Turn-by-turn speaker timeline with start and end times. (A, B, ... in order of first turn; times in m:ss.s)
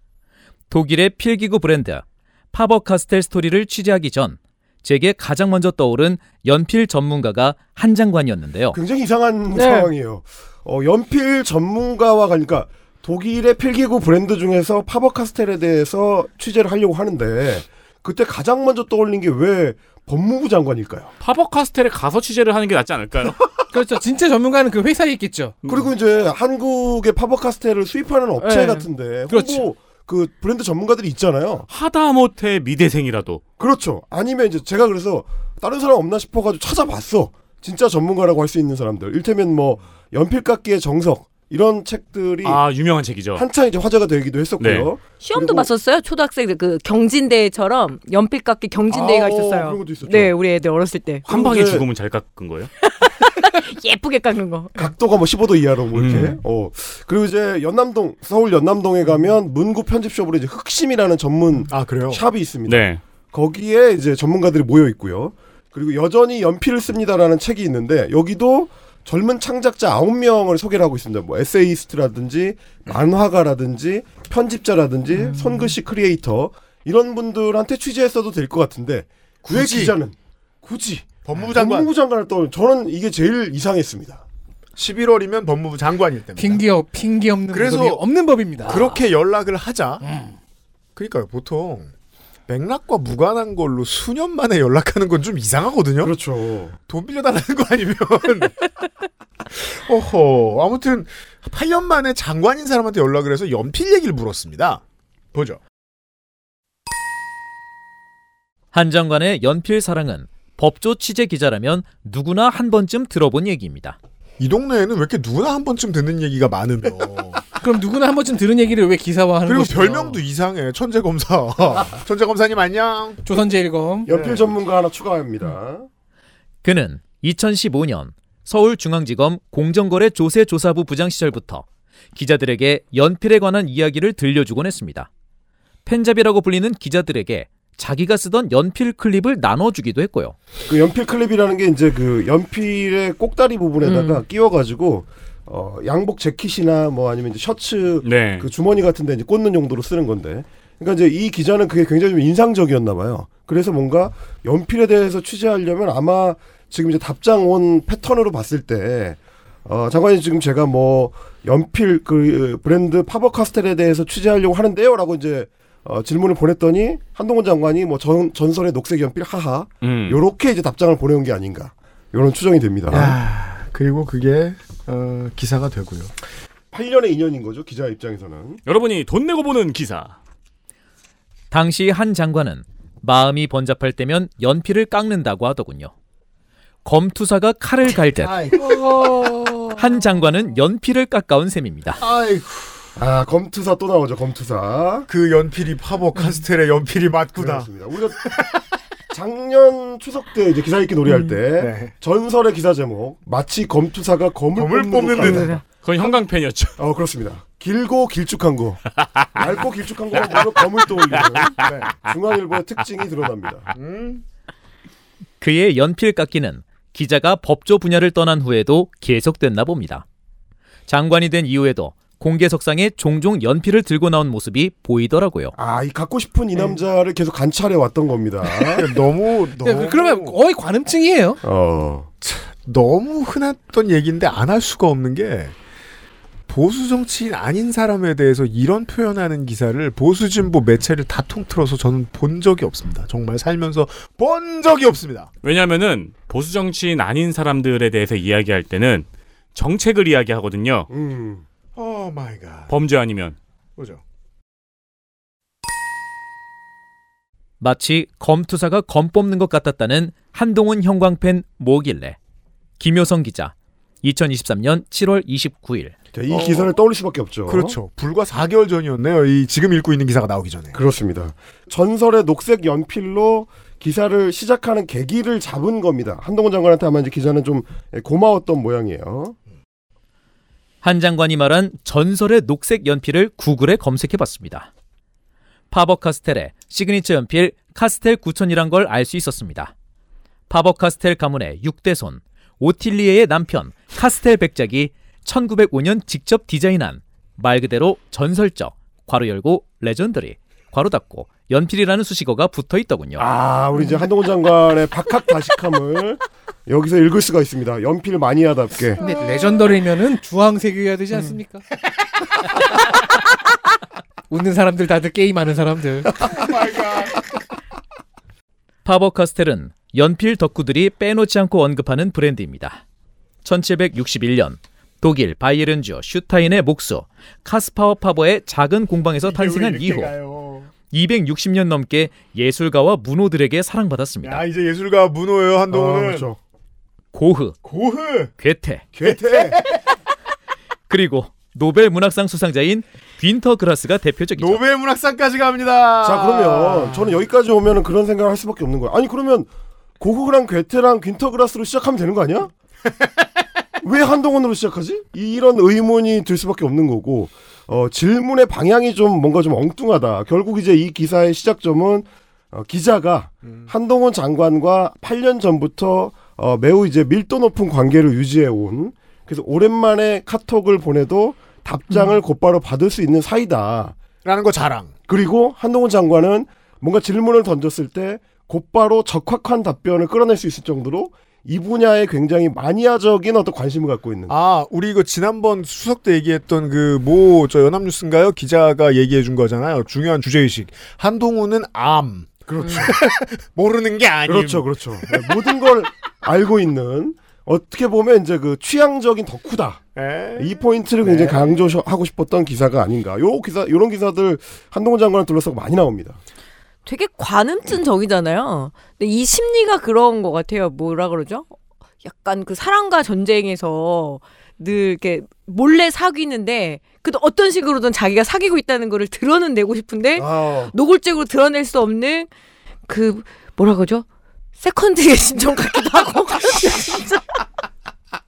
0:00.7-0:08.8 A
0:08.7-0:21.1 B
0:09.5-0:09.9 C
0:21.2-0:23.4 D
0:23.7-0:25.6 E
0:25.6-0:25.9 D
0:25.7-0:31.7 B
0:28.4-0:28.9 C
0:29.3-0:29.6 E
0:31.7-0:33.4 D
0:33.6-0:42.6 B
0:42.4-0:43.4 D
0:43.3-0:45.7 B
0:44.6-0:44.9 D
0:45.2-0:51.3 C
0:48.9-0:50.4 B
0:51.3-0:51.8 B
0:51.3-0:52.7 D
0:52.8-0:54.9 C
0:54.8-1:24.2 B
0:55.9-0:56.4 D
1:01.7-1:02.2 F
1:02.6-1:03.0 D
1:19.4-1:19.9 F
1:21.2-1:21.9 F
1:24.8-1:26.6 F
1:26.4-1:28.9 E
1:27.5-1:28.0 F
1:28.6-1:30.0 F
1:31.0-1:31.9 F
1:32.5-1:36.1 F
1:36.0-1:36.8 B
1:36.9-1:38.7 F
1:39.5-1:44.8 F
1:45.3-1:45.6 F
1:48.7-1:54.0 A
1:54.4-1:57.4 F
1:57.6-2:00.2 E
1:59.4-2:03.2 F
2:03.2-2:04.1 E
2:04.0-2:05.9 B
2:04.1-2:04.4 F
2:06.6-2:15.1 A
2:15.8-2:20.4 A
2:20.6-2:53.2 B
2:23.8-2:24.2 C
2:28.0-2:28.5 D
2:49.8-2:50.2 D
2:52.9-2:56.1 F
2:56.7-2:58.6 B
2:58.6-3:00.2 D
3:01.5-3:05.9 A
3:06.8-3:08.4 A
3:08.1-3:09.5 F
3:09.7-3:12.0 A
3:12.0-3:12.8 F
3:13.0-3:15.1 B
3:15.1-3:17.7 F
3:17.4-3:18.3 B
3:19.1-3:25.6 B
3:21.0-3:21.4 C
3:21.6-3:21.9 F
3:24.6-3:25.6 F
3:25.2-3:25.6 C
3:25.8-3:26.8 D
3:26.8-3:28.8 B
3:29.3-3:33.7 B
3:31.6-3:31.9 F
3:33.7-3:34.2 F
3:35.4-3:40.0 A
3:40.9-3:45.5 A
3:45.5-3:48.9 B
3:48.7-3:50.4 F
3:49.6-3:51.4 E
3:51.4-3:52.1 B
3:52.2-3:55.5 F
3:56.5-4:05.3 F
4:05.4-4:10.9 D
4:10.9-4:11.4 B
4:11.8-4:12.7 F
4:12.7-4:13.4 D
4:17.6-4:22.2 A
4:22.8-4:25.9 A
4:26.1-4:27.7 B
4:26.3-4:26.7 F
4:27.5-4:30.8 F
4:30.7-4:39.3 B
4:40.8-4:44.7 A
4:45.7-4:49.7 A
4:50.5-5:03.2 A
5:03.2-5:09.0 B
5:09.0-5:11.6 E
5:14.3-5:16.4 E
5:16.3-5:17.2 F
5:18.8-5:22.8 A
5:23.4-5:30.1 A
5:29.2-5:30.7 F
5:30.9-5:34.4 A
5:34.2-5:36.3 F
5:35.7-5:36.4 B
5:37.1-5:37.6 A
5:37.6-5:38.3 F
5:38.4-5:38.8 A
5:38.9-5:39.6 B
5:39.0-5:39.8 F
5:40.9-5:44.6 A
5:44.4-5:47.1 F
5:46.0-5:52.5 B
5:53.8-6:14.0 B
6:03.4-6:03.7 F
6:14.2-6:14.9 F
6:15.1-6:24.3 B
6:24.3-6:35.5 F
6:32.5-6:33.0 B
6:34.3-6:39.8 B
6:40.0-6:41.5 F
6:40.4-6:46.2 B
6:46.8-6:51.5 C
6:52.0-7:02.3 C
7:00.2-7:00.7 B
7:02.9-7:04.0 C
7:04.6-7:07.2 C